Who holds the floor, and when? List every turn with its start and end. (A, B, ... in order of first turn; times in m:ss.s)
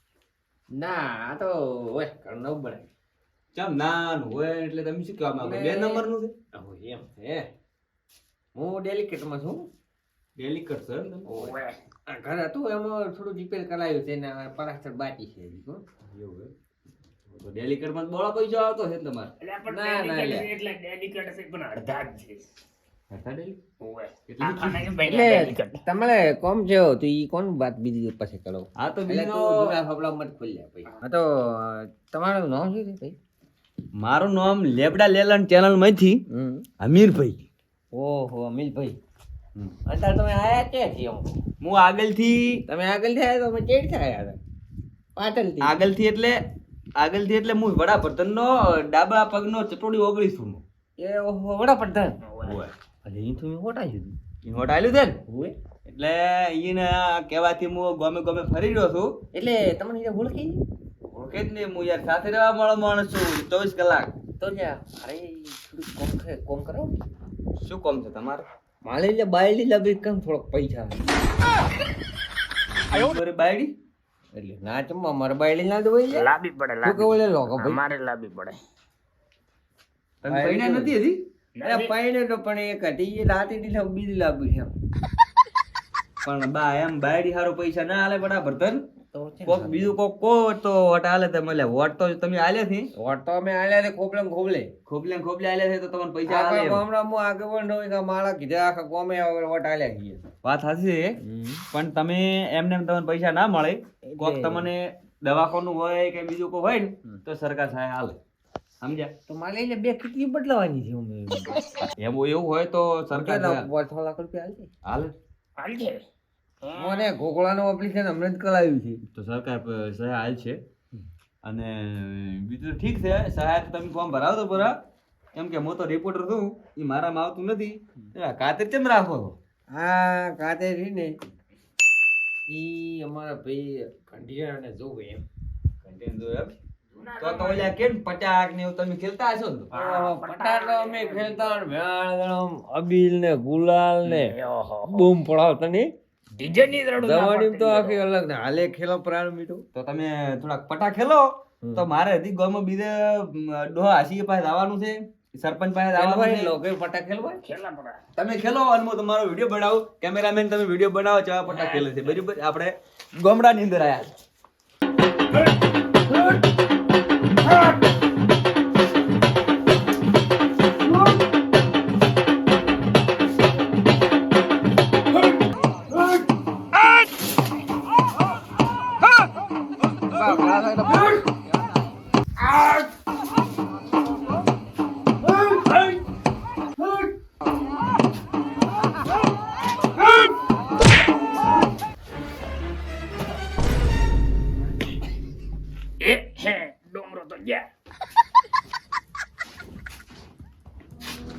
0:00.7-0:02.9 A
0:03.5-0:06.3 B
0:05.4-0:07.5 A
0:08.6-0:09.7 A
0:10.4-0:11.5 B
0:11.3-0:11.8 C
0:12.1-0:15.8 A
0:16.0-0:16.5 B
0:17.3-0:19.3 B
0:19.4-0:22.4 C
0:19.6-0:20.5 A
0:23.1-0:23.6 B
0:23.8-0:25.8 C
0:24.3-0:25.0 B
0:25.0-0:33.2 A
0:28.8-0:29.7 B
0:34.0-0:36.2 B
0:36.3-0:36.6 A
0:36.8-0:37.4 B
0:37.9-0:39.0 A
0:39.9-0:41.4 A
0:41.6-0:42.6 B
0:42.7-0:44.4 A
0:45.2-0:45.7 A
0:45.6-0:46.4 B
0:47.0-0:50.6 B
0:51.0-0:52.2 A
0:52.2-0:52.7 C
0:52.4-0:52.7 B
0:53.0-0:54.1 A
0:54.4-0:55.2 B
0:55.3-0:55.5 A
0:55.8-0:59.1 B
0:59.3-1:00.6 A
1:01.1-1:04.1 B
1:04.4-1:07.0 A
1:07.6-1:08.4 B
1:08.8-1:11.0 A
1:12.9-1:13.7 B
1:14.3-1:16.3 A
1:16.1-1:18.6 C
1:16.8-1:17.8 A
1:20.2-1:21.2 B
1:20.3-1:20.9 A
1:21.6-1:21.9 C
1:21.6-1:24.7 A
1:26.2-1:28.8 B
1:29.1-1:30.0 A
1:29.4-1:32.9 B
1:33.0-1:34.7 A
1:34.9-1:36.8 B
1:36.3-1:40.2 A
1:40.4-1:41.2 B
1:41.2-1:41.6 A
1:41.7-1:48.2 B
1:44.0-1:44.7 A
1:48.8-1:49.1 B
1:49.3-1:51.6 A
1:51.9-1:53.7 B
1:53.1-1:54.7 A
1:54.8-1:55.1 B
1:55.6-1:56.0 C
1:56.6-1:57.0 C
1:56.7-1:59.0 A
1:59.1-2:00.6 B
2:01.4-2:04.8 B
2:05.3-2:09.3 B
2:09.7-2:11.2 A
2:12.5-2:15.2 A
2:15.8-2:16.5 B
2:16.9-2:17.7 C
2:17.2-2:19.7 B
2:19.7-2:21.7 C
2:19.7-2:25.9 A
2:24.0-2:25.1 C
2:26.4-2:28.0 C
2:27.0-2:29.6 A
2:29.7-2:36.5 B
2:35.9-2:37.4 A
2:37.4-2:38.0 C
2:38.1-2:44.1 B
2:41.5-2:42.0 C
3:00.1-3:01.2 A
3:16.0-3:17.7 C